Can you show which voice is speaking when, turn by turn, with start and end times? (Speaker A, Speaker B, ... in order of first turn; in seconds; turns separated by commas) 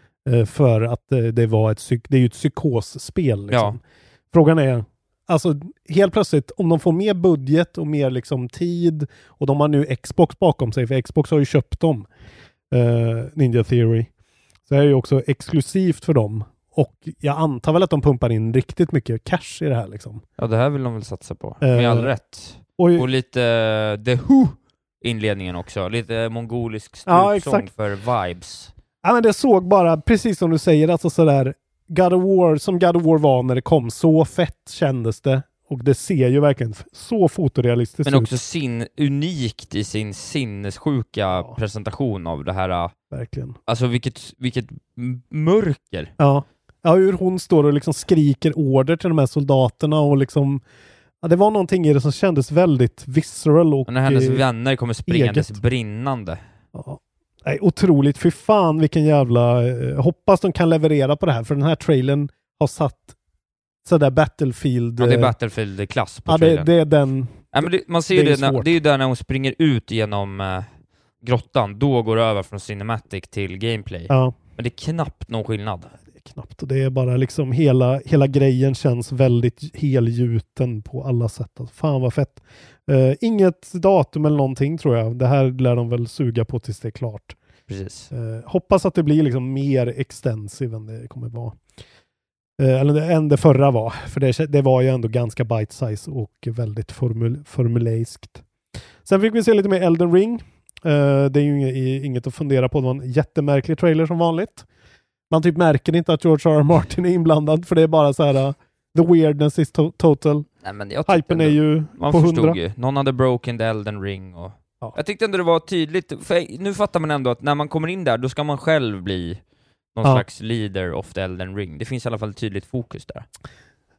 Speaker A: 0.2-3.8, Speaker B: 3.5-3.8, Speaker A: 4.3-12.1, Speaker A: 12.7-14.1, Speaker A: 14.7-20.2, Speaker B: 20.4-28.7, Speaker A: 21.6-22.1, Speaker A: 22.8-23.1, Speaker A: 27.1-27.7, Speaker A: 29.0-38.4, Speaker B: 38.0-42.9, Speaker A: 43.1-43.6, Speaker B: 43.7-46.1, Speaker A: 46.2-50.6, Speaker A: 51.2-54.4, Speaker B: 53.9-56.4, Speaker A: 55.1-55.6, Speaker A: 56.7-63.1, Speaker A: 63.8-65.3, Speaker B: 65.0-66.7, Speaker A: 66.3-68.8, Speaker B: 67.5-70.7, Speaker B: 71.2-75.9, Speaker A: 74.1-74.3, Speaker A: 76.2-87.3, Speaker B: 87.7-88.1, Speaker A: 88.1-91.6, Speaker A: 92.6-98.4, Speaker A: 99.0-104.7, Speaker A: 105.3-110.5, Speaker B: 110.6-119.4, Speaker A: 111.1-112.6, Speaker B: 119.9-123.2